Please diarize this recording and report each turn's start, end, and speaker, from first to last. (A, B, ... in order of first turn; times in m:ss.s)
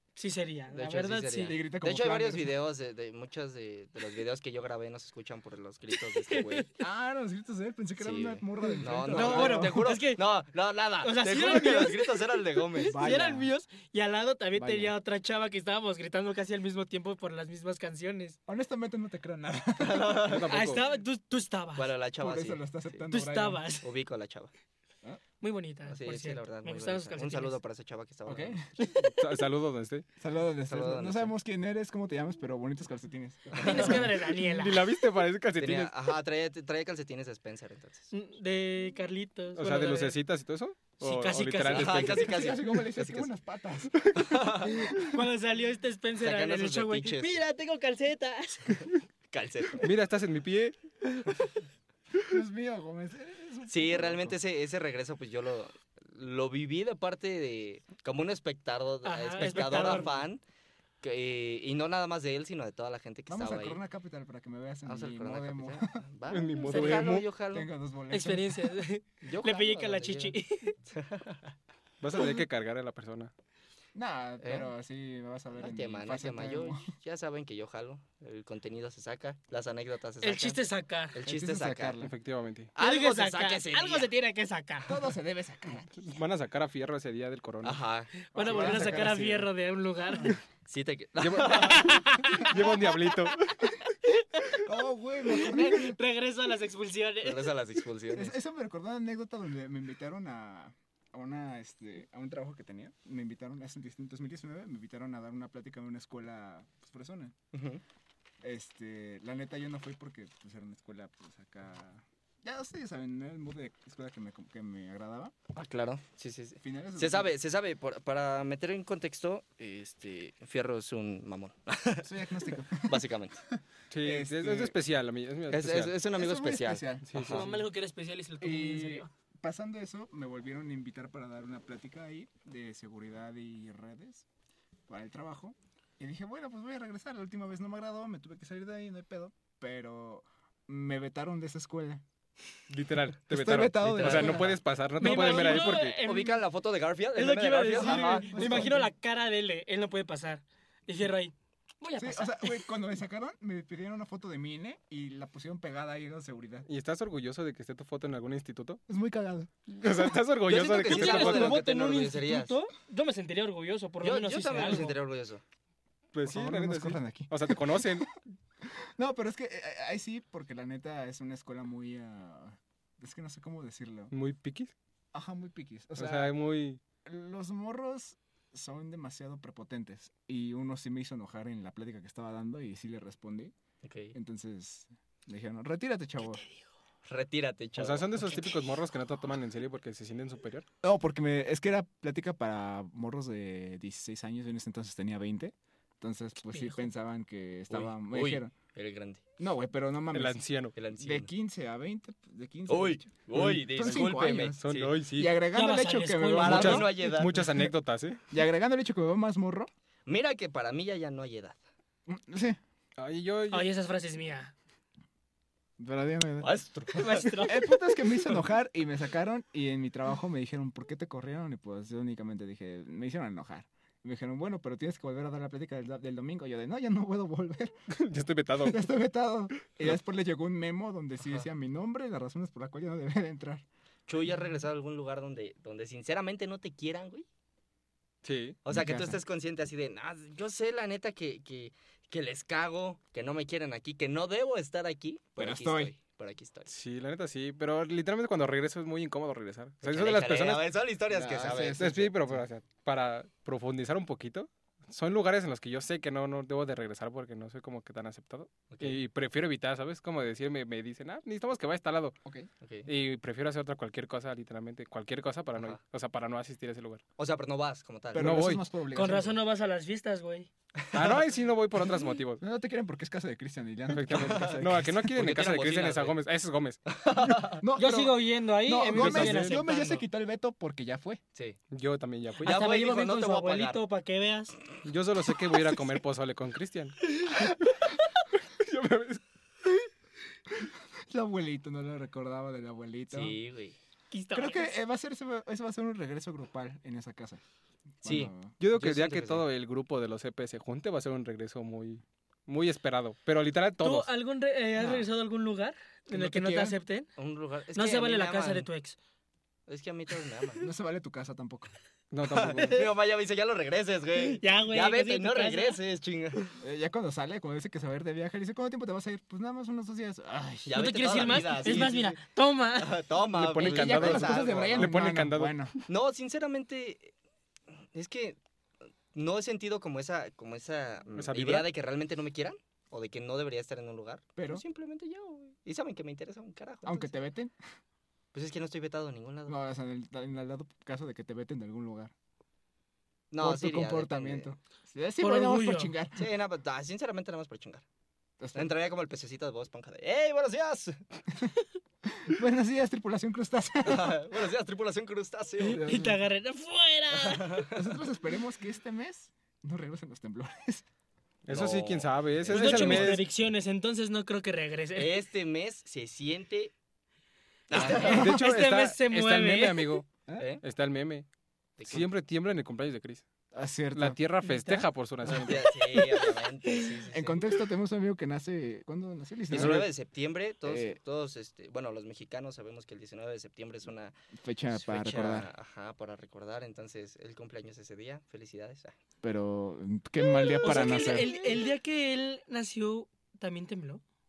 0:00.2-0:01.6 A
0:00.7-0:06.7 B
0:01.4-0:02.6 C
0:06.3-0:06.7 A
0:06.8-0:09.8 C
0:08.0-0:13.0 B
0:09.1-0:10.2 A
0:11.0-0:18.4 A
0:12.8-0:13.5 C
0:14.6-0:14.9 C
0:18.5-0:20.4 C
0:19.8-0:20.7 B
0:20.2-0:20.8 D
0:20.5-0:21.9 A
0:21.8-0:22.6 B
0:22.2-0:23.6 C
0:23.1-0:23.8 A
0:23.8-0:24.5 B
0:25.4-0:27.6 A
0:25.9-0:28.7 B
0:28.2-0:28.7 C
0:28.8-0:29.2 A
0:29.0-0:30.1 D
0:30.2-0:34.1 C
0:30.7-0:31.3 B
0:33.5-0:34.1 B
0:33.6-0:34.9 A
0:33.8-0:35.9 D
0:35.6-0:38.1 B
0:38.1-0:40.2 A
0:39.6-0:42.4 D
0:41.0-0:42.2 A
0:41.7-0:43.3 B
0:42.1-0:45.2 C
0:44.2-0:44.9 B
0:44.7-0:48.9 A
0:46.2-0:47.3 B
0:49.3-0:49.9 B
0:49.8-0:50.8 D
0:52.2-0:54.4 C
0:53.7-1:00.4 B
0:59.0-1:00.2 A
1:01.0-1:03.8 B
1:03.3-1:06.1 C
1:04.9-1:07.7 B
1:06.3-1:07.3 D
1:06.7-1:08.8 C
1:08.1-1:10.8 A
1:09.2-1:11.4 B
1:12.0-1:13.3 D
1:14.0-1:16.9 C
1:14.4-1:14.7 B
1:15.6-1:22.0 B
1:20.2-1:21.2 A
1:21.2-1:22.1 C
1:22.0-1:22.7 D
1:22.8-1:24.1 B
1:22.8-1:25.0 A
1:24.8-1:26.1 C
1:26.0-1:27.8 D
1:27.6-1:28.8 B
1:28.3-1:30.4 A
1:28.3-1:29.5 C
1:30.7-1:32.0 B
1:31.2-1:33.4 D
1:31.5-1:33.5 A
1:34.1-1:34.6 A
1:34.6-1:36.0 C
1:35.3-1:37.5 A
1:37.2-1:38.4 B
1:38.1-1:47.4 C
1:47.5-1:47.8 B
1:48.4-1:55.3 C
1:55.5-2:03.4 B
1:56.6-1:57.3 C
2:02.0-2:04.8 C
2:03.9-2:06.0 D
2:05.5-2:07.5 B
2:06.1-2:07.6 C
2:07.1-2:07.5 D
2:07.3-2:09.1 A
2:08.4-2:14.3 C
2:14.9-2:22.0 C
2:22.7-2:26.0 D
2:23.3-2:24.6 C
2:23.8-2:28.7 B
2:25.0-2:26.4 A
2:27.2-2:32.6 A
2:27.7-2:28.9 C
2:32.0-2:36.7 C
2:36.7-2:38.8 D
2:38.9-2:39.5 C
2:39.7-2:41.6 D
2:40.4-2:42.6 B
2:40.9-2:45.0 A
2:44.0-2:45.4 B
2:46.1-2:48.2 D
2:46.2-2:48.1 C
2:48.6-2:54.1 C
2:54.1-2:54.7 D
2:55.1-2:56.3 C
2:56.0-2:56.8 D
2:57.0-3:03.5 C
3:03.8-3:04.1 B
3:04.1-3:06.4 C
3:06.3-3:06.6 A
3:07.0-3:08.5 B
3:07.8-3:10.7 D
3:10.8-3:18.5 C
3:17.7-3:19.2 B
3:19.4-3:20.4 C
3:20.1-3:20.8 D
3:20.8-3:21.3 B
3:21.0-3:27.7 C
3:22.7-3:24.9 B
3:24.6-3:25.4 D
3:25.5-3:26.8 A
3:26.3-3:27.5 B
3:26.4-3:28.2 D
3:28.3-3:29.7 C
3:30.1-3:31.6 B
3:32.1-3:32.6 C
3:33.0-3:33.7 D
3:33.5-3:34.5 A
3:35.8-3:36.5 C
3:36.4-3:37.4 B
3:37.0-3:37.7 A
3:37.4-3:47.7 C
3:47.9-3:48.8 D
3:48.6-3:53.6 C
3:54.1-3:57.2 B
3:58.2-3:58.6 D
3:58.6-4:06.7 B
3:58.7-3:59.2 C
4:05.4-4:05.9 C
4:06.7-4:10.6 D
4:09.8-4:12.1 B
4:11.1-4:12.4 C
4:11.5-4:22.2 D
4:18.7-4:19.0 B
4:22.6-4:22.9 B
4:22.9-4:27.0 D
4:27.2-4:28.4 B
4:28.1-4:29.4 C
4:28.2-4:28.6 D
4:28.9-4:30.5 A
4:30.8-4:31.2 B
4:30.9-4:32.4 D
4:32.4-4:34.9 C
4:33.9-4:36.8 D
4:34.1-4:36.2 B
4:36.9-4:37.6 B
4:37.5-4:41.2 C
4:37.8-4:40.0 A
4:39.0-4:39.6 D
4:41.7-4:42.6 D
4:42.4-4:43.8 B
4:42.4-4:44.6 A
4:44.8-4:47.5 D
4:47.2-4:47.5 A
4:48.6-4:49.2 D
4:50.6-4:53.4 C
4:53.1-4:53.8 B
4:54.1-4:54.8 A
4:54.3-4:57.4 C
4:58.0-4:58.5 C
4:58.0-4:59.5 B
4:58.6-5:04.1 D
5:03.8-5:07.1 A
5:04.8-5:05.1 C
5:06.1-5:06.8 C
5:07.2-5:08.7 B
5:07.8-5:09.0 A
5:09.7-5:10.7 B
5:10.6-5:11.7 C
5:12.1-5:12.9 D
5:12.3-5:16.4 B
5:12.6-5:12.8 A
5:14.2-5:15.8 A
5:16.6-5:21.8 C
5:20.7-5:22.2 B
5:20.7-5:23.0 A
5:22.8-5:24.9 B
5:23.3-5:25.6 D
5:23.6-5:25.7 C
5:25.9-5:27.1 B
5:27.9-5:28.4 B
5:29.1-5:37.1 B
5:31.2-5:31.7 D
5:34.4-5:34.6 C
5:36.8-5:37.5 C
5:38.3-5:39.6 B
5:39.5-5:42.1 C
5:43.3-5:44.5 B
5:43.4-5:46.3 C
5:45.2-5:45.9 A
5:46.2-5:47.8 B
5:48.4-5:48.7 C
5:48.6-5:51.0 B
5:52.0-5:54.2 C
5:53.8-5:55.9 B
5:55.6-5:57.5 A
5:55.6-5:56.2 C
5:57.1-5:57.8 B
5:57.7-6:00.8 C
6:01.5-6:03.3 D
6:01.5-6:03.2 B
6:02.5-6:05.1 A
6:05.0-6:06.7 B
6:07.7-6:08.4 B
6:07.7-6:10.0 A
6:07.8-6:08.4 C
6:08.0-6:10.1 D
6:10.6-6:11.3 D
6:11.8-6:12.1 B
6:11.9-6:13.2 D
6:13.5-6:15.3 C
6:14.0-6:15.7 D
6:15.2-6:17.5 B
6:15.9-6:16.9 A
6:17.1-6:19.9 C
6:19.5-6:24.1 B
6:19.5-6:19.9 D
6:20.7-6:21.0 C
6:24.4-6:25.5 C
6:24.7-6:29.0 B
6:29.2-6:31.4 C
6:30.6-6:34.0 A
6:30.8-6:31.5 B